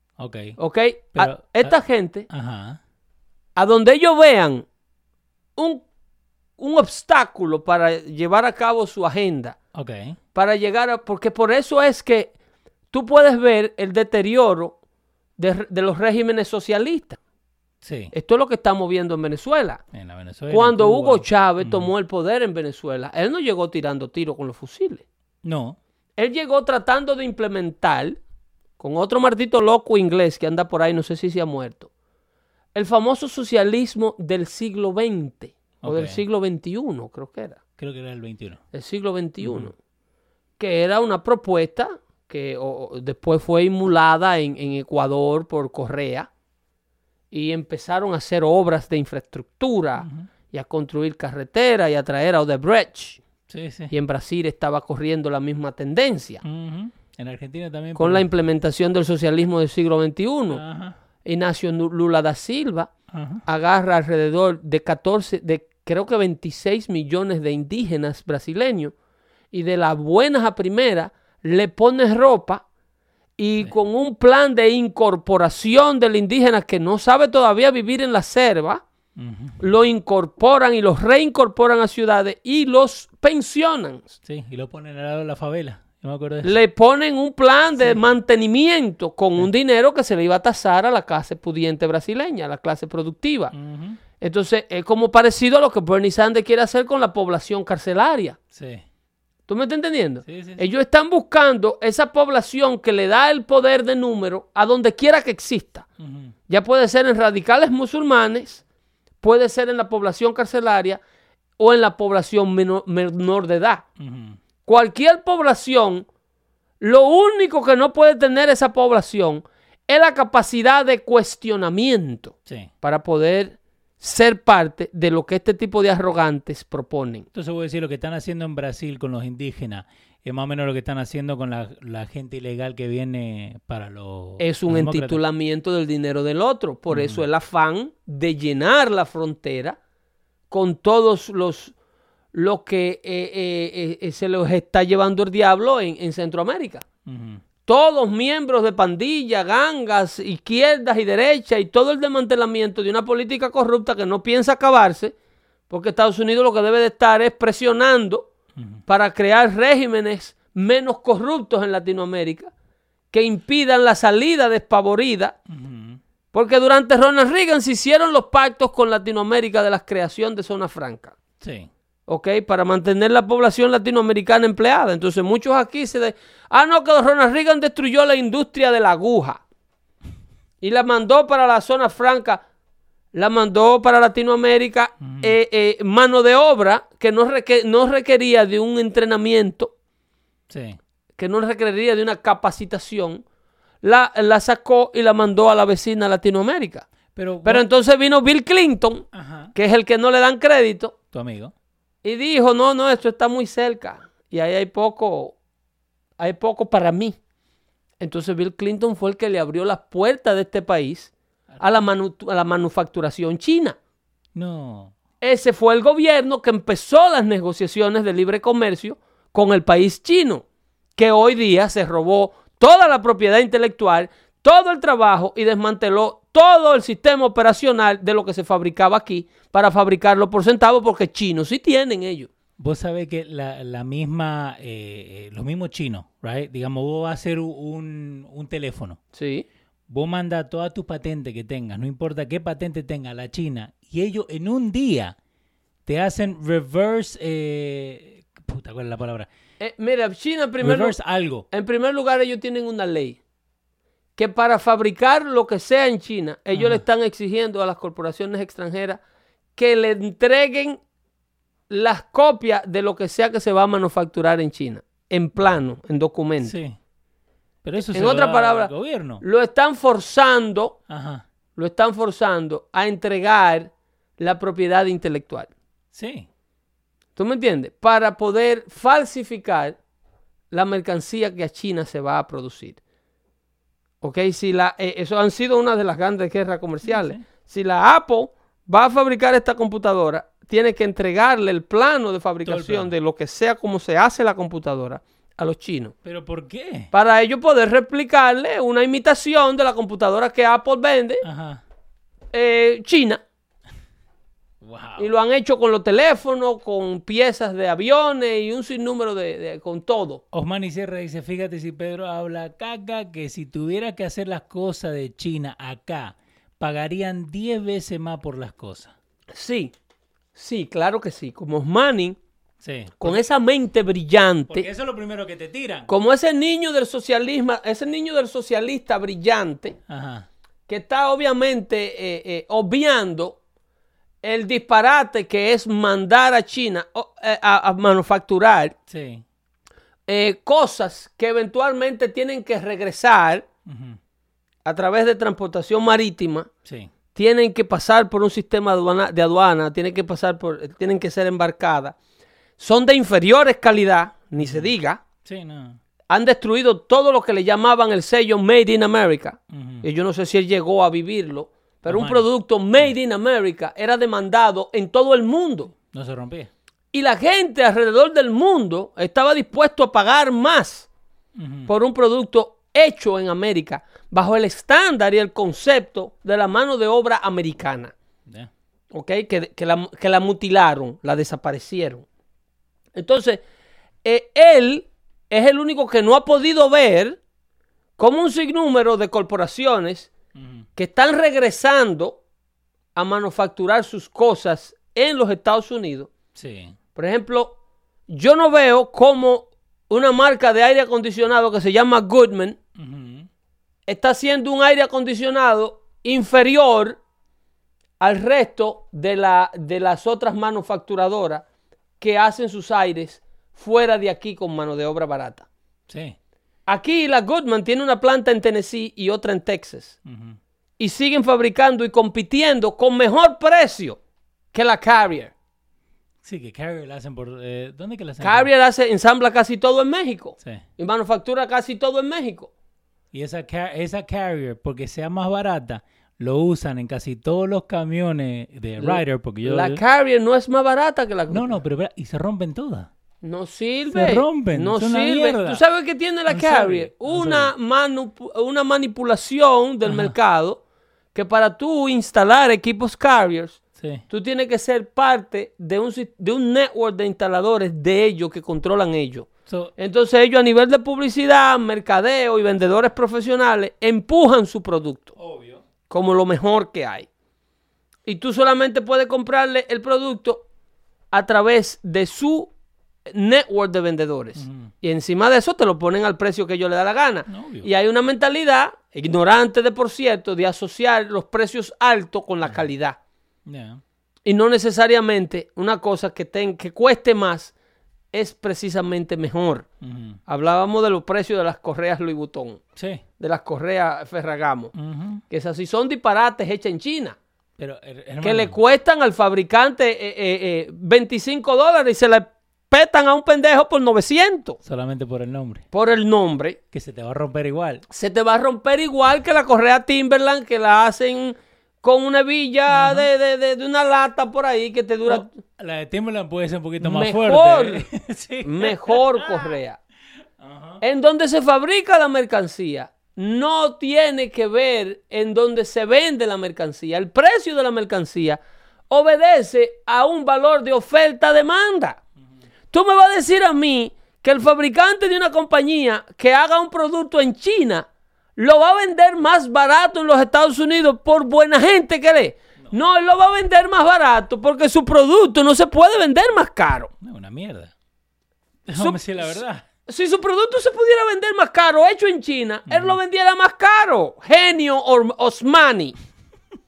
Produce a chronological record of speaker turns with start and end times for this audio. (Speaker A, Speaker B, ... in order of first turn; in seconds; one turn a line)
Speaker A: 0.2-0.6
Speaker B: 0.6-2.3
Speaker A: 1.1-1.8
Speaker A: 2.3-2.8
Speaker B: 3.6-4.7
Speaker B: 5.6-5.8
Speaker B: 6.6-9.6
Speaker A: 9.7-10.2
Speaker B: 10.3-12.3
Speaker B: 12.9-14.8
Speaker B: 15.4-17.2
Speaker A: 17.8-18.1
Speaker B: 18.1-19.8
Speaker A: 19.9-21.9
Speaker B: 20.5-25.0
Speaker A: 25.4-25.8
Speaker B: 26.2-28.2
Speaker B: 28.8-31.9
Speaker B: 32.7-37.6
Speaker A: 35.8-36.2
Speaker A: 37.8-38.6
Speaker B: 38.7-39.7
Speaker A: 39.4-39.7
Speaker B: 40.6-46.3
Speaker B: 47.3-53.2
Speaker A: 50.0-50.3
Speaker A: 53.5-53.9
Speaker B: 53.9-56.4
Speaker A: 56.4-58.3
Speaker B: 58.0-60.6
Speaker A: 60.5-61.0
Speaker B: 61.2-62.9
Speaker A: 63.1-63.4
Speaker B: 63.5-68.9
Speaker B: 69.5-72.6
Speaker B: 73.4-78.8
Speaker A: 79.2-79.6
Speaker B: 79.6-84.1
Speaker A: 84.2-86.6
Speaker B: 86.4-93.5
Speaker A: 93.5-94.0
Speaker B: 94.2-98.4
Speaker A: 98.5-98.8
Speaker B: 99.5-105.9
Speaker A: 100.2-100.7
Speaker A: 106.0-106.3
Speaker B: 106.5-108.6
Speaker B: 109.2-111.0
Speaker B: 111.6-113.8
Speaker A: 114.0-114.4
Speaker B: 114.7-116.1
Speaker B: 116.8-127.3
Speaker A: 122.5-122.7
Speaker A: 127.3-135.2
Speaker B: 134.4-139.8
Speaker A: 136.9-137.2
Speaker B: 140.5-141.7
Speaker B: 142.3-146.8
Speaker A: 147.1-147.4
Speaker B: 147.7-155.1
Speaker B: 155.7-158.3
Speaker A: 158.6-158.8
Speaker B: 158.9-162.5
Speaker B: 163.1-165.4
Speaker A: 165.5-166.0
Speaker B: 166.3-171.2
Speaker A: 171.4-171.7
Speaker B: 172.1-179.4
Speaker B: 180.6-182.4
Speaker B: 183.1-189.7
Speaker A: 185.0-185.4
Speaker A: 190.5-190.8
Speaker B: 191.2-193.2
Speaker B: 193.8-196.9
Speaker A: 197.2-197.7
Speaker B: 197.4-200.9
Speaker A: 199.1-199.5
Speaker A: 201.1-201.5
Speaker B: 202.0-205.3
Speaker B: 206.2-207.2
Speaker B: 208.0-213.8
Speaker A: 211.5-211.9
Speaker A: 214.3-214.9
Speaker B: 215.2-220.4
Speaker B: 221.0-232.3
Speaker A: 232.6-239.0
Speaker B: 239.1-239.5
Speaker A: 239.9-245.2
Speaker A: 245.9-249.3
Speaker B: 249.6-251.0
Speaker A: 250.6-251.4
Speaker B: 251.5-253.2
Speaker B: 254.2-259.0
Speaker A: 256.5-256.8
Speaker B: 259.6-260.8
Speaker B: 261.7-266.6
Speaker A: 266.4-266.8
Speaker A: 267.6-269.2
Speaker B: 267.9-270.8
Speaker A: 270.9-271.2
Speaker B: 271.6-275.5
Speaker A: 275.9-276.3
Speaker B: 277.2-279.8
Speaker B: 280.5-282.8
Speaker B: 284.0-295.9
Speaker A: 286.8-287.2
Speaker A: 292.4-292.9
Speaker A: 296.0-296.9
Speaker B: 296.9-301.2
Speaker A: 301.2-301.6
Speaker B: 302.3-303.2
Speaker A: 304.6-305.1
Speaker B: 305.0-310.2
Speaker A: 310.3-318.9
Speaker B: 319.3-319.7
Speaker B: 320.4-322.2
Speaker A: 322.6-323.2
Speaker B: 323.0-324.7
Speaker A: 324.5-325.9
Speaker B: 325.9-329.8
Speaker A: 329.9-330.3
Speaker B: 330.7-333.4
Speaker B: 334.2-338.7
Speaker A: 338.9-339.2
Speaker B: 340.1-343.5
Speaker A: 343.7-344.0
Speaker B: 344.6-346.5
Speaker A: 346.6-346.9
Speaker B: 347.1-351.9
Speaker B: 352.6-355.0
Speaker A: 354.4-354.7
Speaker A: 355.2-355.8
Speaker B: 356.1-365.7
Speaker A: 359.5-359.9
Speaker A: 361.9-362.3
Speaker A: 365.9-366.5
Speaker B: 366.9-370.9
Speaker A: 371.4-371.7
Speaker B: 371.7-377.9
Speaker B: 378.9-382.1
Speaker B: 382.9-383.4
Speaker B: 384.0-387.2
Speaker B: 388.0-390.1
Speaker A: 390.4-390.6
Speaker B: 390.8-392.2
Speaker B: 392.9-396.1
Speaker A: 396.4-396.8
Speaker B: 397.0-397.6
Speaker B: 398.1-402.6
Speaker A: 402.8-403.3
Speaker B: 403.9-407.0
Speaker B: 408.0-411.4
Speaker B: 412.0-415.5
Speaker A: 415.9-416.2
Speaker B: 416.7-420.0
Speaker A: 420.1-420.4
Speaker B: 420.8-424.0
Speaker B: 424.5-425.3
Speaker A: 426.2-428.5
Speaker B: 428.2-432.5
Speaker A: 433.1-439.8
Speaker B: 438.8-441.6
Speaker A: 441.3-442.9
Speaker B: 443.2-450.6
Speaker A: 443.9-445.6
Speaker A: 446.3-447.5
Speaker A: 449.8-450.1
Speaker B: 451.1-465.1
Speaker A: 453.8-454.0
Speaker A: 459.5-459.7
Speaker A: 465.2-465.6
Speaker B: 465.9-467.1
Speaker B: 468.1-470.4
Speaker B: 471.1-472.5
Speaker B: 473.1-483.0
Speaker A: 474.4-474.7
Speaker A: 477.3-477.7
Speaker A: 483.5-483.8
Speaker B: 484.3-487.5
Speaker B: 488.1-489.7
Speaker A: 489.8-490.2
Speaker B: 490.3-492.6
Speaker A: 492.8-493.0
Speaker B: 493.2-494.7
Speaker A: 494.7-495.2
Speaker B: 495.3-497.2
Speaker A: 497.6-498.6
Speaker B: 498.2-504.6
Speaker A: 504.6-505.7
Speaker B: 505.7-506.6
Speaker A: 506.7-507.9
Speaker B: 507.9-515.3
Speaker A: 512.7-513.1
Speaker A: 515.1-519.5
Speaker B: 516.8-517.9
Speaker B: 518.4-519.8
Speaker A: 520.4-520.8
Speaker B: 520.8-532.0
Speaker B: 532.7-546.9
Speaker A: 547.0-547.7
Speaker A: 548.7-549.6
Speaker B: 548.8-555.9
Speaker A: 552.7-553.0